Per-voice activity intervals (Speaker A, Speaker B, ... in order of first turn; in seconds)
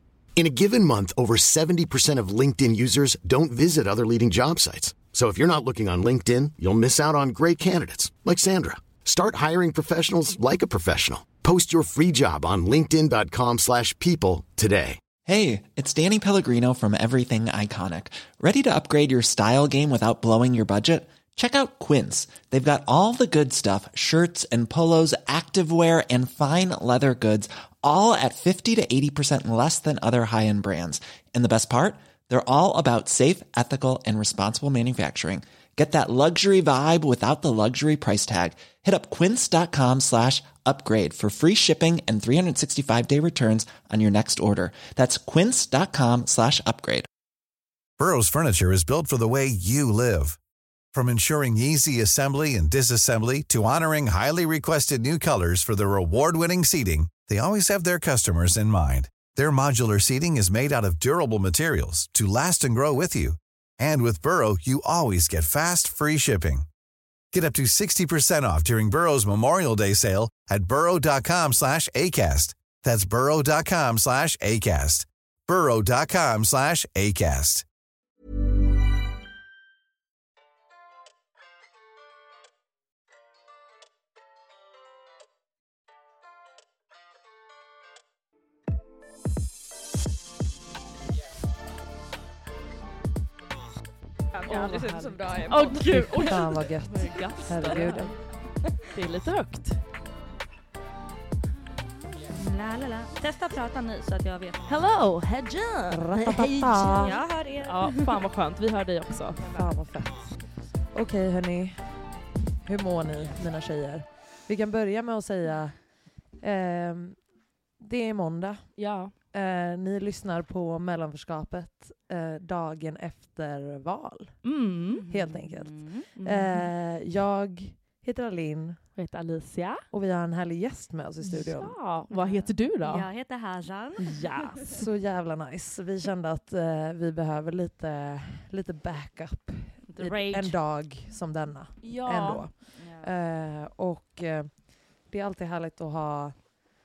Speaker A: 0.3-15.0
Speaker B: 15.2-47.1
Speaker C: 48.0-50.4, 50.9-66.7, 67.3-77.6
Speaker D: 94.3-96.3, 97.6-98.1, 102.3-104.7, 106.9-108.0, 124.9-126.1, 132.1-134.2, 140.0-140.6, 142.8-143.1
Speaker E: 94.5-99.8, 104.7-109.5, 118.8-119.1, 124.4-125.0, 126.2-126.7, 128.9-129.9, 131.3-133.1, 134.0-134.8, 141.8-142.6
Speaker F: 95.8-98.2, 105.9-107.2, 109.4-112.1, 112.6-124.5, 125.1-128.9, 129.9-131.8, 134.7-146.5